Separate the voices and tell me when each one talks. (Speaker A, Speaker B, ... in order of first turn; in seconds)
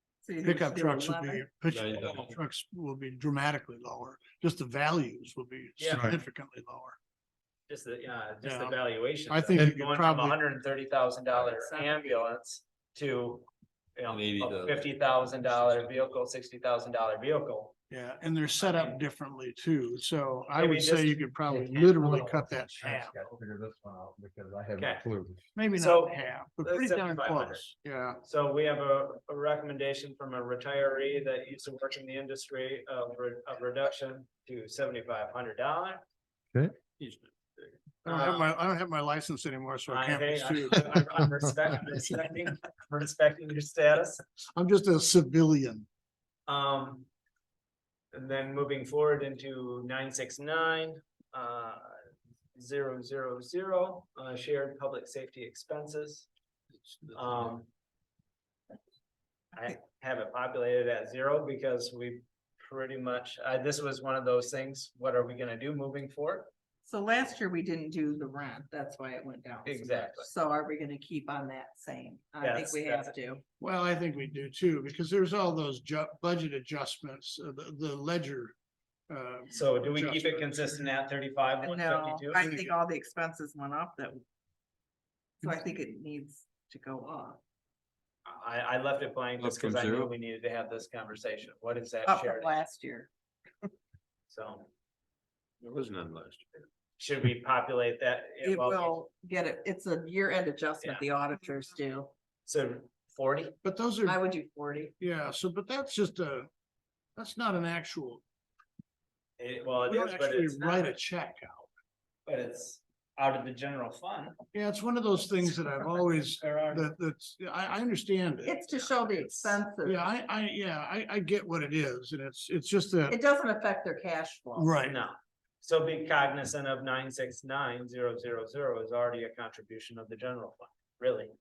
Speaker A: 0.2-1.5, 11.3-12.2, 66.8-73.4, 81.6-84.2, 85.4-87.4, 92.0-93.1, 98.4-102.1, 104.0-104.9, 118.4-120.0, 123.1-124.8
Speaker B: 0.4-7.0, 8.4-10.4, 17.9-23.1, 25.5-28.2, 38.0-41.1, 44.5-45.9, 73.6-78.5, 79.1-80.9, 82.4-82.7, 103.6-104.2, 105.0-106.5, 107.2-108.2, 109.9-111.7, 114.5-118.6, 119.8-123.2, 124.6-125.0
Speaker C: 1.7-2.4, 14.1-16.2, 37.0-37.7, 56.8-57.5, 89.4-90.1, 95.6-96.4
Speaker D: 5.8-6.1, 7.7-17.7, 18.6-19.0, 20.5-23.2, 24.8-25.1, 25.7-27.6, 28.2-36.0, 38.0-38.5, 39.9-44.2, 46.5-47.1, 48.1-52.0, 52.5-56.3, 57.1-57.7, 59.5-66.5, 69.6-70.3, 72.4-73.1, 79.5-82.4, 88.2-92.6, 94.3-94.7, 97.0-99.0, 100.8-101.1, 102.5-103.6, 109.4-110.9, 112.2-114.4, 116.3-116.9, 118.7-119.6, 124.8-131.3
Speaker E: 22.0-25.4